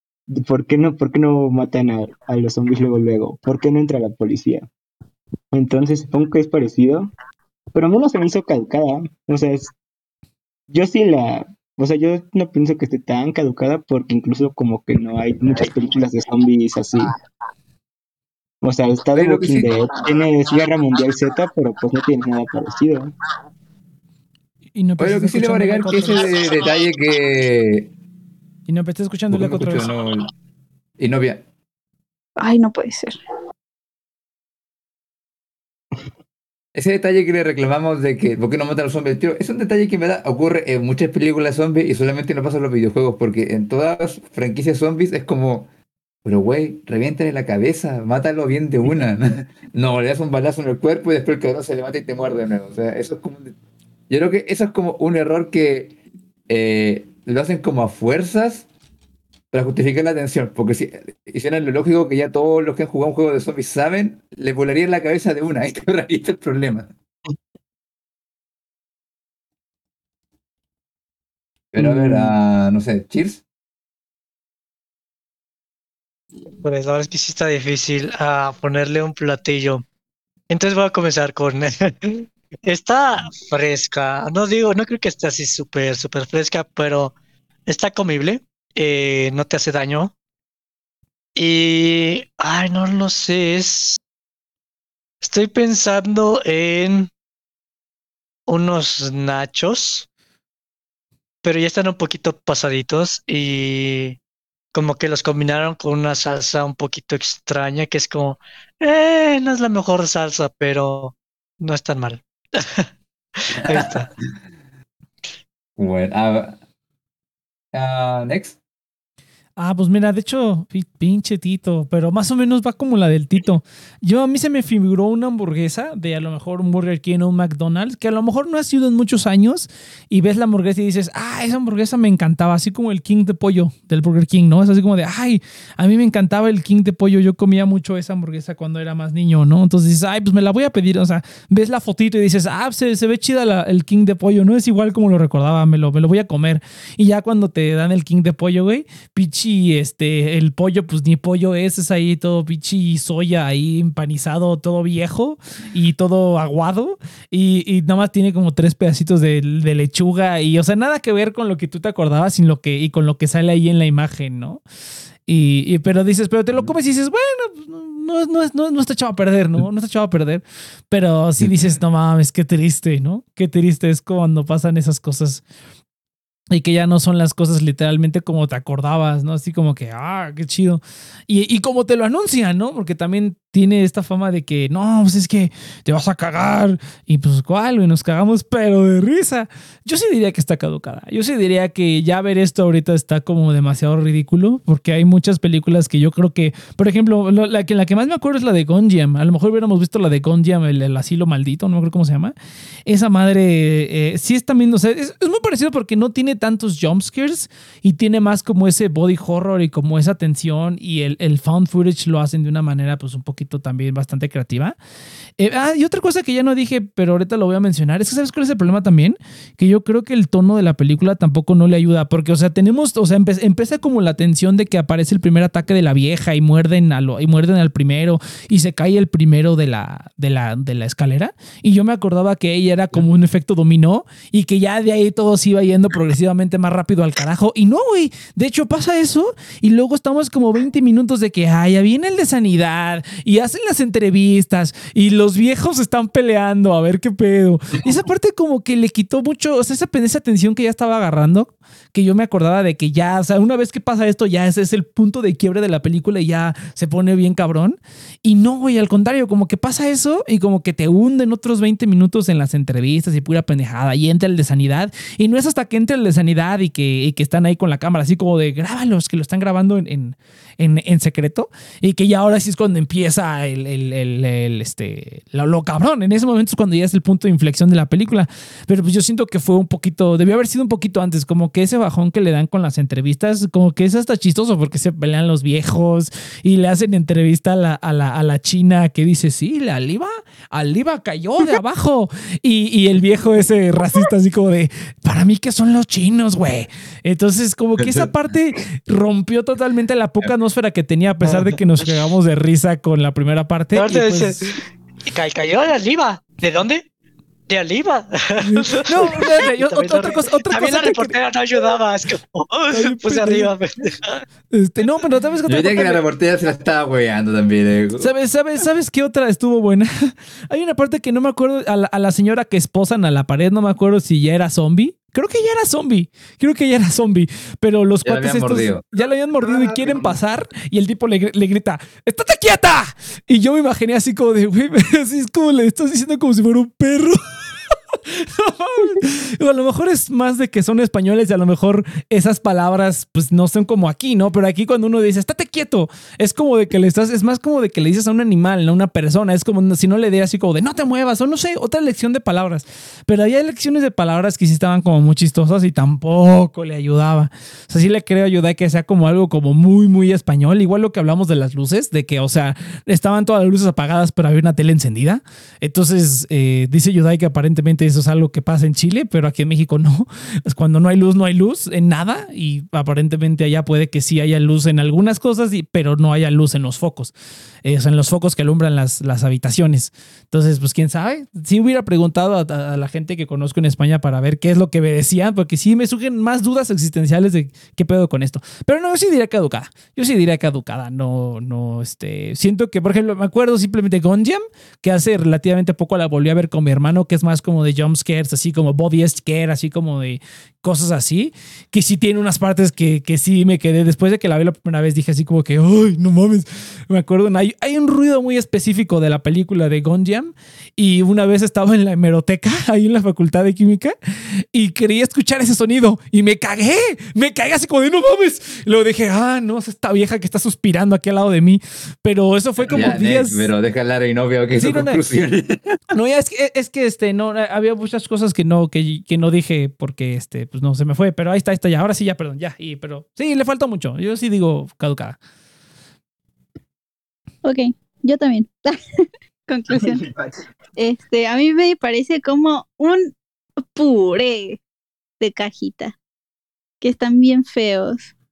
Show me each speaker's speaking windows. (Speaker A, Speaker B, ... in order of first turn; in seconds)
Speaker A: 0.3-4.7, 5.5-7.1, 7.7-9.7, 10.7-17.1, 18.6-23.1, 71.8-72.4, 329.4-330.2, 439.7-440.4
Speaker B: 19.1-19.9, 25.0-27.9, 29.3-30.3, 31.0-31.4, 36.8-45.7, 46.2-53.5, 54.1-55.9, 56.5-58.7, 59.5-66.9, 71.7-73.4, 115.8-116.6, 117.7-118.6, 297.8-298.1, 315.5-318.1, 328.0-328.9, 422.6-425.8
Speaker C: 24.8-26.3, 28.7-29.9, 119.6-164.6, 165.3-175.4, 176.5-202.3, 202.9-214.8, 215.4-304.4, 308.4-311.1, 312.7-313.5, 314.5-316.0, 318.0-413.9, 414.5-423.5, 424.6-425.0, 425.9-435.2
Speaker D: 32.4-33.2, 437.4-440.1, 440.8-444.6, 445.2-446.0, 446.8-448.1
Speaker E: 76.6-79.8, 80.5-87.1, 87.7-90.1, 91.4-94.0, 95.2-97.1, 98.5-100.1, 101.4-104.2, 104.7-112.9, 113.5-114.1, 303.7-306.9, 307.5-314.2